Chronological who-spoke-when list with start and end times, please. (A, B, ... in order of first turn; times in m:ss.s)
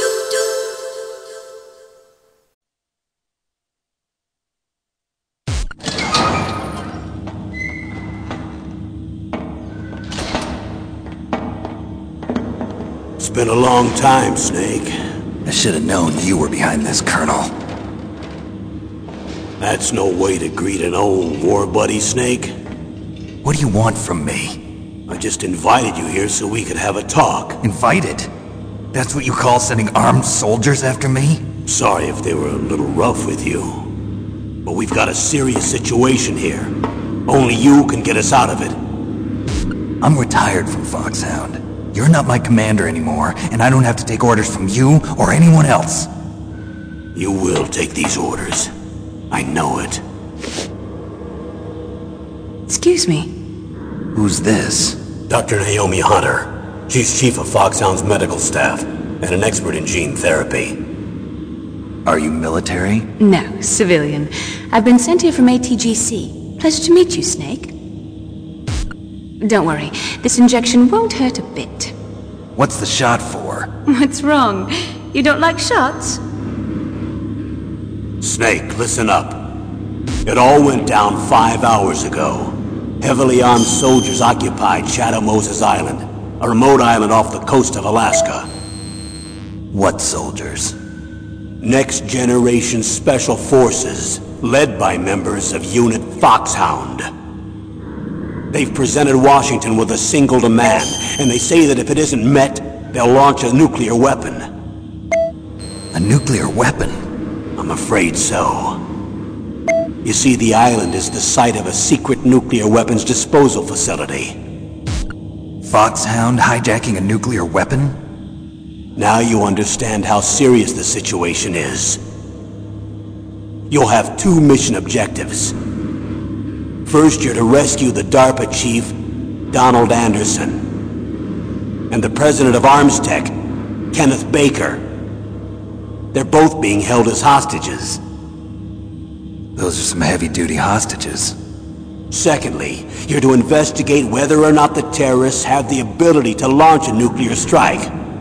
0:13.2-0:14.9 A
0:15.4-0:17.5 B
0:19.6-0:22.5 A
0:23.4-0:24.6 B
0:25.1-0:27.6 A
0:27.6-0:28.3 B
0:28.9-0:31.4 B
0:31.7-0:33.9 A
0:34.6-0:36.7 A
0:37.3-0:38.8 A
0:40.0-0:46.1 B
0:47.1-0:48.7 A
0:49.3-0:50.0 A
0:52.7-0:53.3 C
0:54.1-0:55.0 B
0:55.3-1:00.8 A
1:02.0-1:03.1 B
1:03.2-1:07.7 C
1:09.4-1:11.9 C
1:12.5-1:13.7 B
1:13.8-1:16.2 C
1:18.2-1:19.6 A
1:20.2-1:28.5 A
1:29.7-1:30.7 B
1:31.6-1:37.1 A
1:38.5-1:44.5 A
1:45.9-1:47.0 B
1:47.6-1:48.8 A
1:50.0-1:54.4 A
1:55.6-1:58.0 B
1:59.0-2:02.0 A
2:03.7-2:05.5 A
2:06.8-2:08.9 A
2:09.5-2:10.6 A
2:11.9-2:13.3 A
2:13.9-2:14.8 A
2:16.1-2:18.0 A
2:19.6-2:21.4 B
2:22.1-2:27.9 A